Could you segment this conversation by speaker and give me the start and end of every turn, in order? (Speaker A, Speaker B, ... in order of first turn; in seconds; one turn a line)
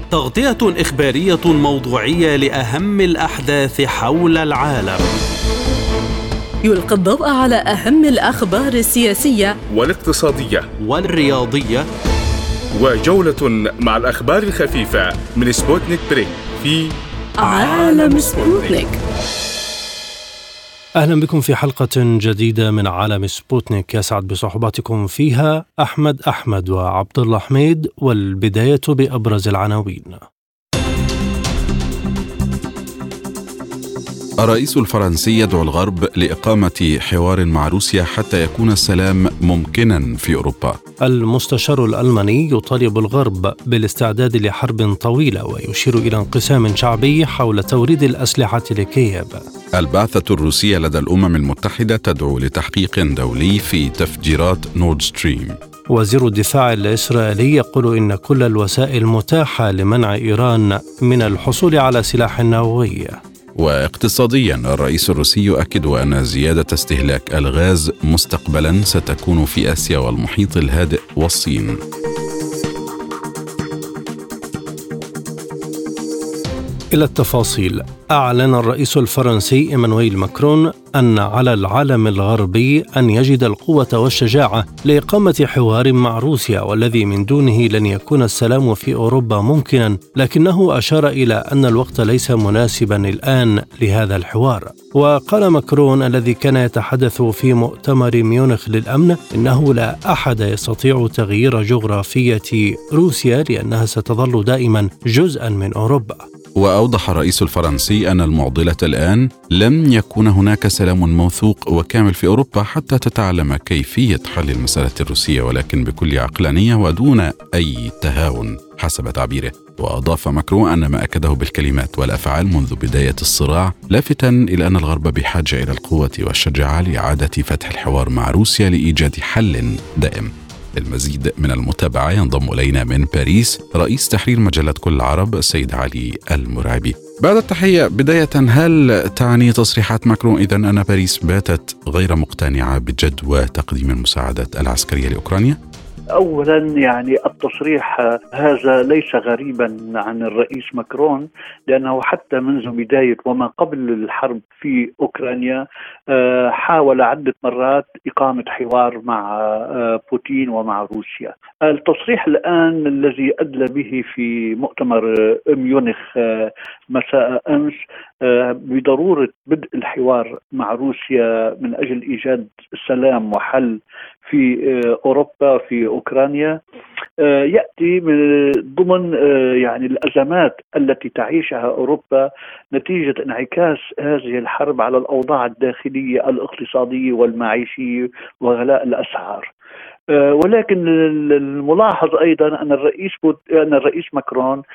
Speaker A: 0.1-5.1
Speaker B: 6.6-9.6
Speaker C: 9.7-10.7
Speaker A: 10.8-11.9
Speaker C: 12.7-17.0
Speaker B: 17.4-19.0
Speaker C: 17.5-18.2
Speaker A: 17.6-18.6
Speaker D: 21.0-30.2
Speaker E: 34.4-40.8
Speaker D: 41.0-49.5
Speaker E: 49.8-55.6
Speaker D: 55.9-63.2
Speaker E: 63.6-71.8
Speaker D: 76.9-106.2
Speaker E: 106.6-145.6
Speaker F: 146.2-176.6
Speaker F: 177.2-189.5
Speaker F: 190.1-194.6